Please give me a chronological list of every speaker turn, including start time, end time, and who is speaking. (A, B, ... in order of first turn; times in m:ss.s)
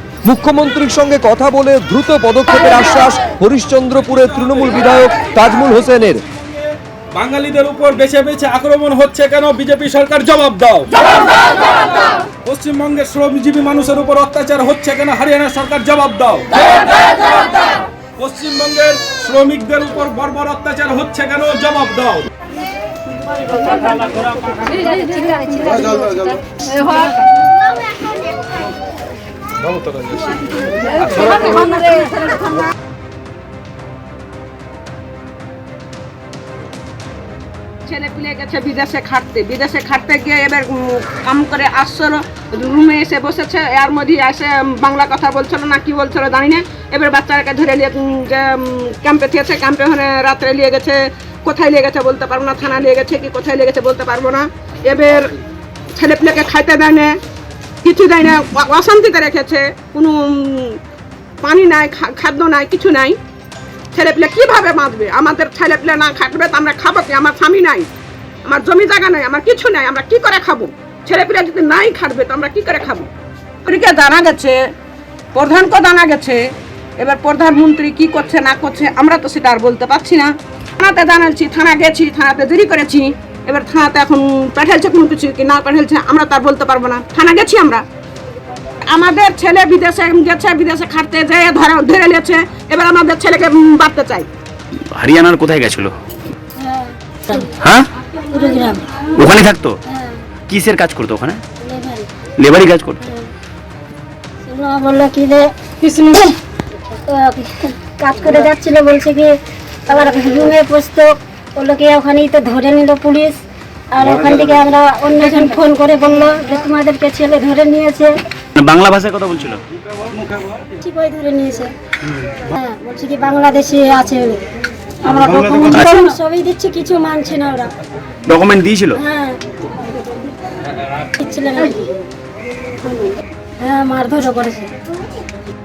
0:00.2-0:06.2 A
0:07.1-0:11.2 B
0:12.3-0:17.6 B
0:18.2-0:22.3 B
0:25.4-0:26.2 C
0:31.0-0:31.6 B
0:31.6-0:31.9 D
0:37.9-0:55.3 D
0:56.0-0:57.2 D
0:57.8-1:00.8 D
1:01.4-1:03.2 D
1:03.9-1:07.9 D
1:08.5-1:13.1 D
1:13.6-1:14.6 D
1:15.3-1:27.8 D
1:28.9-1:34.3 D
1:35.0-1:36.0 E
1:36.6-1:37.5 C
1:37.6-1:37.9 E
1:38.1-1:39.0 C
1:39.1-1:39.8 E
1:39.9-1:40.2 C
1:40.5-1:41.4 E
1:41.6-1:42.1 C
1:42.4-1:43.0 E
1:43.0-1:43.3 C
1:44.4-1:53.4 C
1:53.9-1:58.2 C
1:58.6-1:59.6 E
2:00.8-2:01.7 C
2:02.6-2:04.4 C
2:05.0-2:07.7 C
2:05.7-2:06.1 E
2:08.2-2:09.0 E
2:09.0-2:09.4 C
2:11.2-2:11.9 C
2:13.0-2:14.7 C